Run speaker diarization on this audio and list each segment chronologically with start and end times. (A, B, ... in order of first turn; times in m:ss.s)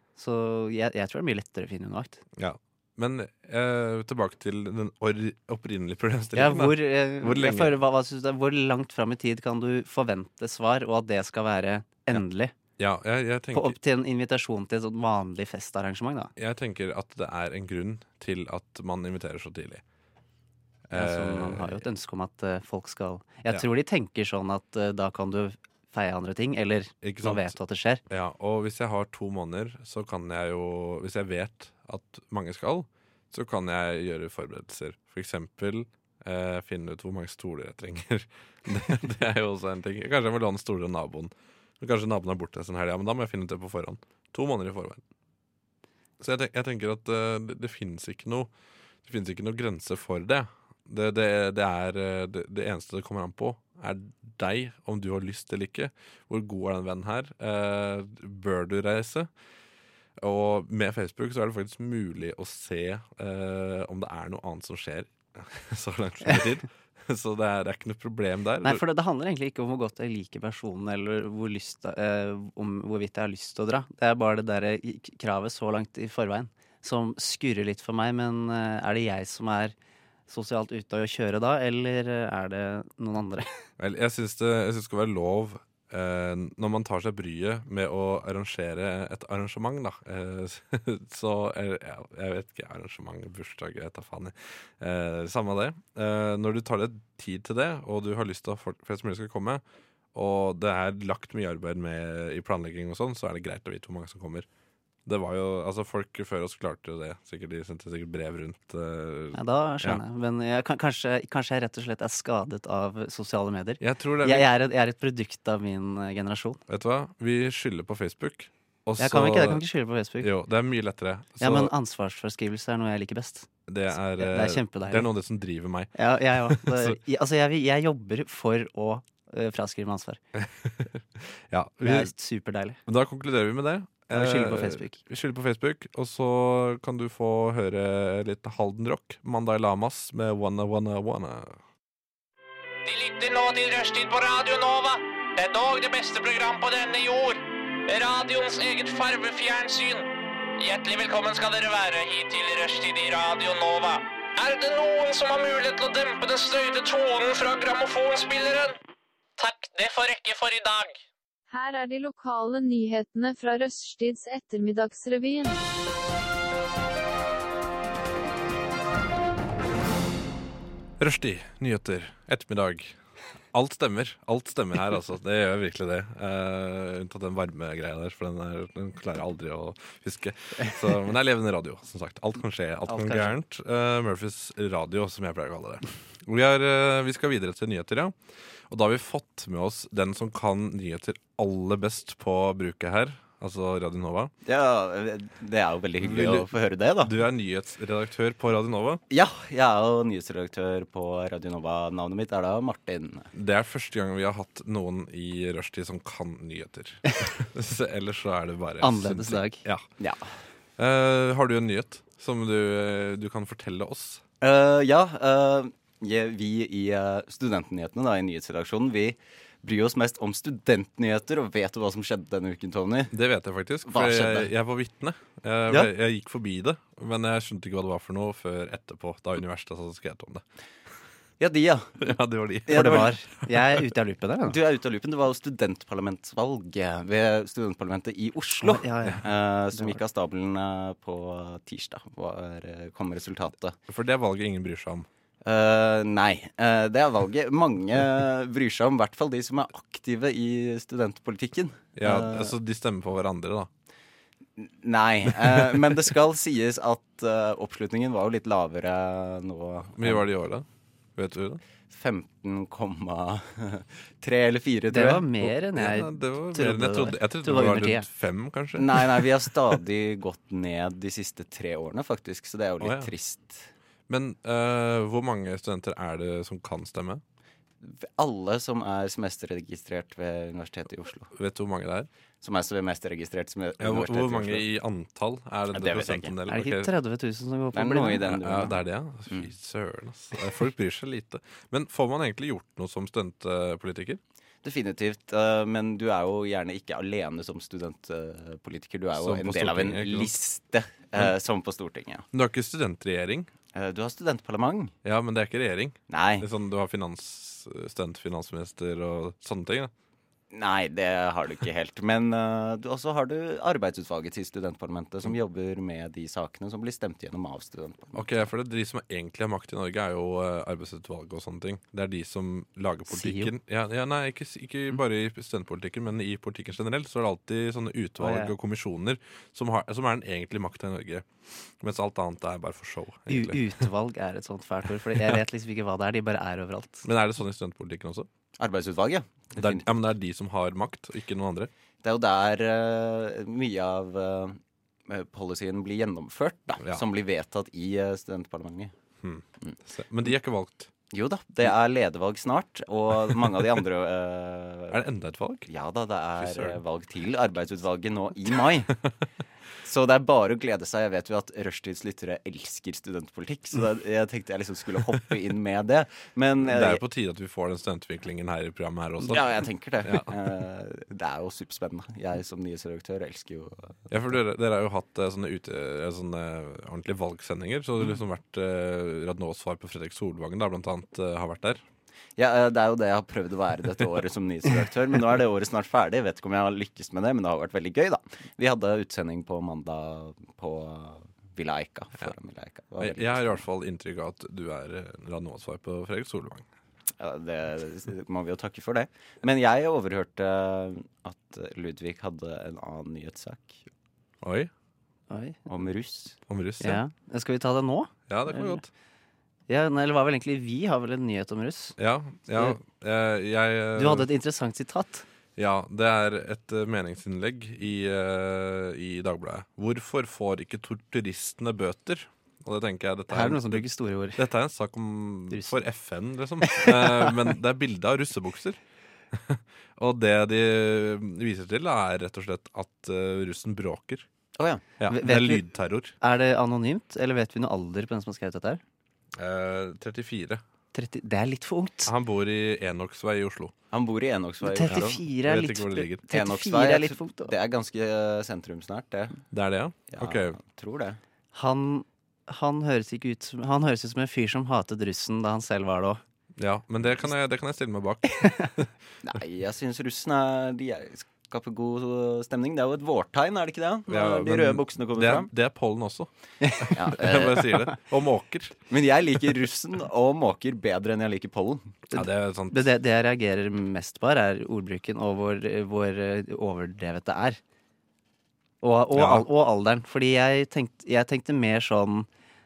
0:00.2-0:02.2 A
0:02.4-0:07.8 B
0:06.4-0:12.5 A
0:12.8-0:13.8 B
0:13.5-0:16.3 A
0:16.4-0:19.8 B
0:20.9-0:21.8 B
0:20.9-0:28.0 A
0:27.0-0:27.5 B
0:28.1-0:45.0 B
0:46.2-0:48.5 B
0:49.0-0:59.3 B
1:00.2-1:08.8 B
1:08.6-1:19.7 A
1:20.3-1:23.5 A
1:23.8-1:39.6 B
1:40.1-1:44.4 B
1:45.1-1:50.0 B
1:49.3-1:56.6 A
1:53.8-1:54.5 B
1:56.7-1:59.6 B
1:59.0-2:00.3 A
2:00.2-2:01.7 B
2:01.4-2:03.5 A
2:03.7-2:07.0 B
2:04.2-2:05.1 A
2:05.9-2:10.2 A
2:10.4-2:12.1 B
2:11.8-2:12.8 A
2:12.9-2:21.6 B
2:14.1-2:15.0 A
2:22.8-2:30.1 C
2:30.6-2:38.8 C
2:39.4-2:41.0 C
2:41.5-2:45.6 D
2:51.0-2:53.0 B
2:53.5-3:08.1 B
3:02.9-3:03.3 A
3:08.7-3:14.3 B
3:14.4-3:17.1 E
3:16.0-3:19.0 B
3:19.1-3:23.3 E
3:23.3-3:29.9 B
3:28.8-3:29.6 A
3:30.0-3:30.2 E
3:30.8-3:34.2 B
3:34.4-3:43.1 E
3:43.1-3:50.4 B
3:43.9-3:44.5 E
3:51.4-3:52.0 E
3:52.0-3:53.8 B
3:52.7-3:53.1 E
3:52.7-3:54.6 A
3:54.4-4:03.8 E
3:58.6-4:00.0 A
4:03.9-4:05.1 B
4:05.4-4:12.5 E
4:12.0-4:13.7 B
4:14.6-4:20.2 E
4:15.5-4:15.8 B
4:20.0-4:21.6 B
4:21.9-4:25.3 E
4:24.9-4:28.1 A
4:25.4-4:29.7 B
4:28.7-4:33.7 E
4:32.8-4:33.1 B
4:34.1-4:37.2 B
4:37.8-4:41.3 E
4:41.3-4:42.1 B
4:42.4-4:44.6 E
4:43.8-4:46.9 B
4:45.7-4:46.3 E
4:46.5-4:48.3 A
4:47.7-4:48.8 E
4:48.2-4:54.2 B
4:54.6-5:02.2 E
4:59.2-5:00.3 B
5:02.3-5:03.5 B
5:03.7-5:04.9 E
5:05.0-5:09.9 B
5:06.1-5:06.4 E
5:10.5-5:18.3 E
5:18.1-5:31.3 B
5:23.1-5:23.5 A
5:28.2-5:28.5 A
5:31.8-5:33.8 B
5:33.3-5:37.1 A
5:35.1-5:35.4 B
5:37.0-5:38.3 B
5:38.6-5:39.8 E
5:39.6-5:41.7 B
5:42.0-5:48.9 E
5:49.2-5:50.9 B
5:51.1-5:55.0 E
5:54.9-5:55.7 B
5:55.7-5:58.9 E
5:56.4-5:56.8 B
5:59.8-6:07.0 E
6:06.6-6:10.4 B
6:09.2-6:14.0 E
6:14.1-6:21.8 B
6:22.4-6:33.6 E
6:33.0-6:36.6 B
6:37.2-6:43.8 E
6:44.4-6:44.7 B
6:45.3-6:45.6 A
6:45.7-6:46.4 E
6:46.5-6:47.0 B
6:46.8-6:48.8 A
6:48.3-6:48.9 B
6:49.7-6:52.0 A
6:52.0-6:54.3 B
6:54.0-6:55.2 A
6:55.6-7:03.8 B
7:03.3-7:04.4 A
7:04.4-7:08.8 B
7:05.5-7:05.8 A
7:06.6-7:07.3 A
7:09.3-7:14.3 B
7:14.6-7:14.8 E
7:15.0-7:16.1 B
7:15.1-7:15.6 A
7:16.2-7:18.8 A
7:19.4-7:20.6 B
7:20.9-7:22.1 A
7:22.1-7:23.7 B
7:23.9-7:25.2 E
7:24.6-7:27.5 A
7:24.9-7:26.2 B
7:26.3-7:29.4 E
7:29.5-7:30.6 B
7:30.1-7:31.2 E
7:31.5-7:36.2 A
7:36.6-7:38.9 B
7:39.2-7:45.5 E
7:44.1-7:46.3 B
7:46.8-7:48.8 B
7:46.9-7:47.7 E
7:48.9-7:52.0 E
7:52.1-7:57.6 A
7:52.1-7:52.9 B
7:58.8-8:02.3 A
7:59.1-7:59.5 B